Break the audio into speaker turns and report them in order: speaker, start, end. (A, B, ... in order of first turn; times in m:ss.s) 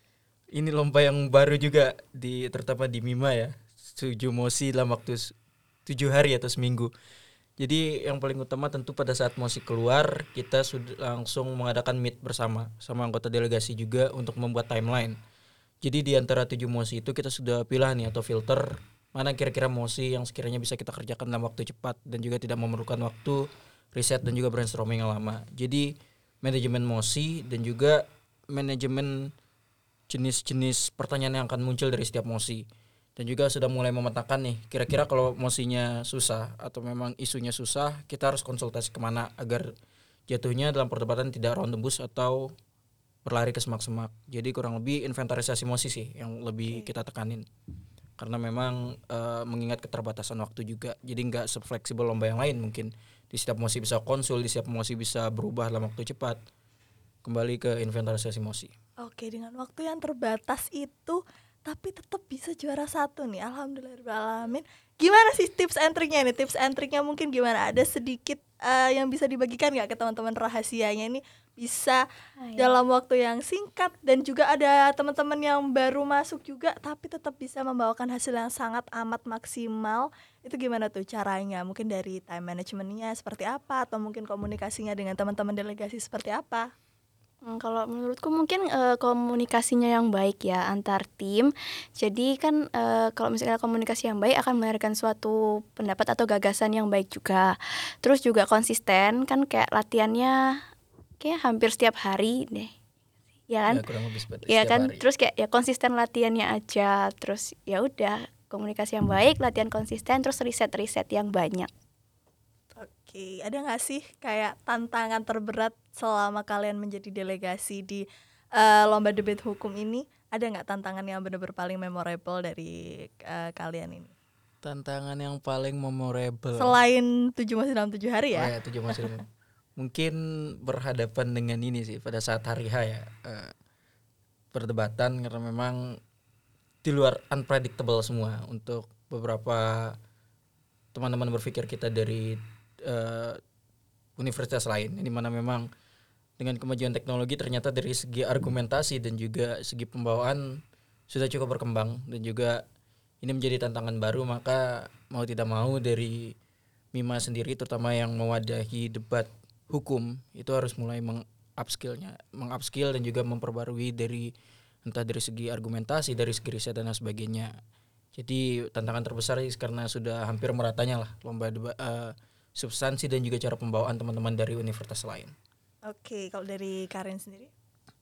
0:00.5-0:05.3 A
0:05.8-0:06.9 A
0:07.6-0:15.2 A
0:15.8-0:29.3 A
0:30.1-0:32.6 A
0:33.2-0:39.7 A
0:40.3-0:42.5 A
0:43.2-0:47.4 A
0:48.2-0:56.4 A
0:57.2-0:58.7 A
0:59.0-1:12.0 B
1:12.4-1:12.7 C
1:12.6-1:26.7 B
1:27.4-1:40.6 C
1:41.2-1:42.7 C
1:43.5-1:43.8 C
1:43.7-1:45.0 A
1:44.5-1:51.7 C
1:52.7-2:04.1 B
2:04.6-2:06.8 A
2:06.6-2:08.5 B
2:08.3-2:09.2 A
2:09.8-2:13.5 A
2:14.5-2:15.8 A
2:16.8-2:20.0 A
2:20.9-2:23.4 A
2:24.2-2:25.6 A
2:26.4-2:30.4 A
2:31.1-2:32.6 A
2:33.2-2:36.3 A
2:36.9-2:44.3 A
2:44.8-2:47.5 A
2:48.2-2:55.3 A
2:55.8-2:57.5 B